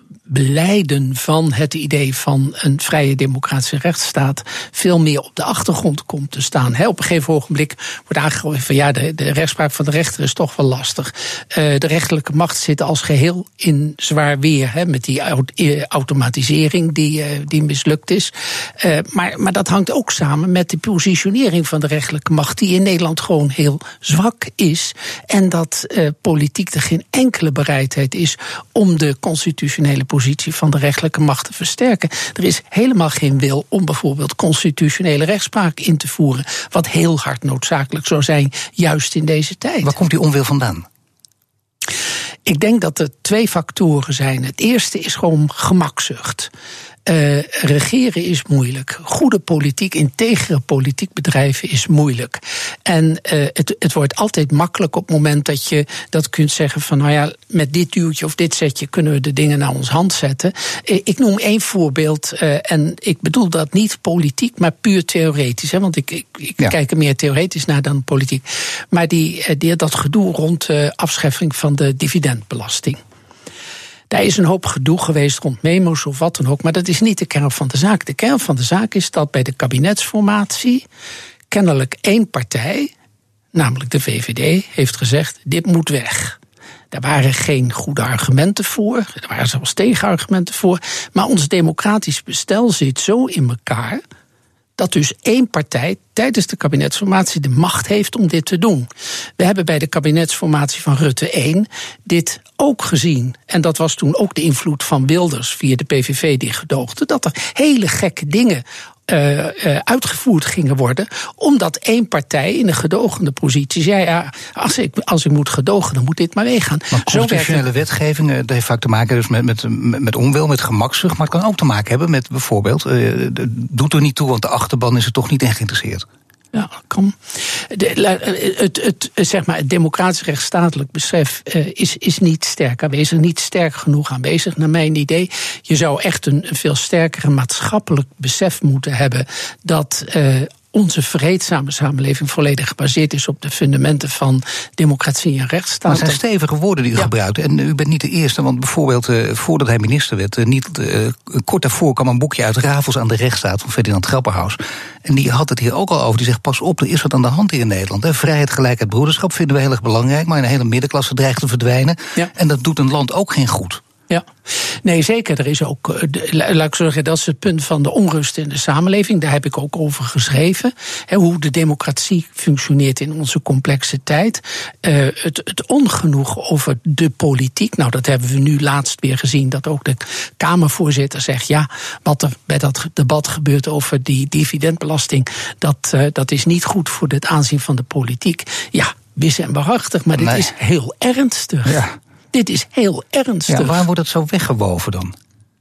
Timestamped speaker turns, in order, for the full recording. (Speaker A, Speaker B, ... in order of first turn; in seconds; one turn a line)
Speaker A: 0.3-39.9
Speaker B: 39.8-40.9
Speaker A: 42.5-46.5
Speaker A: 47.1-73.0
Speaker A: 74.1-80.8
Speaker A: 81.5-82.9
Speaker A: 83.5-86.4
Speaker A: 86.9-94.0
Speaker A: 94.8-117.7
Speaker B: 116.9-126.0
Speaker A: 126.5-146.2
Speaker B: 145.9-163.8
Speaker A: 164.1-193.8
Speaker B: 190.2-190.5
Speaker B: 191.7-191.9
Speaker B: 193.5-195.1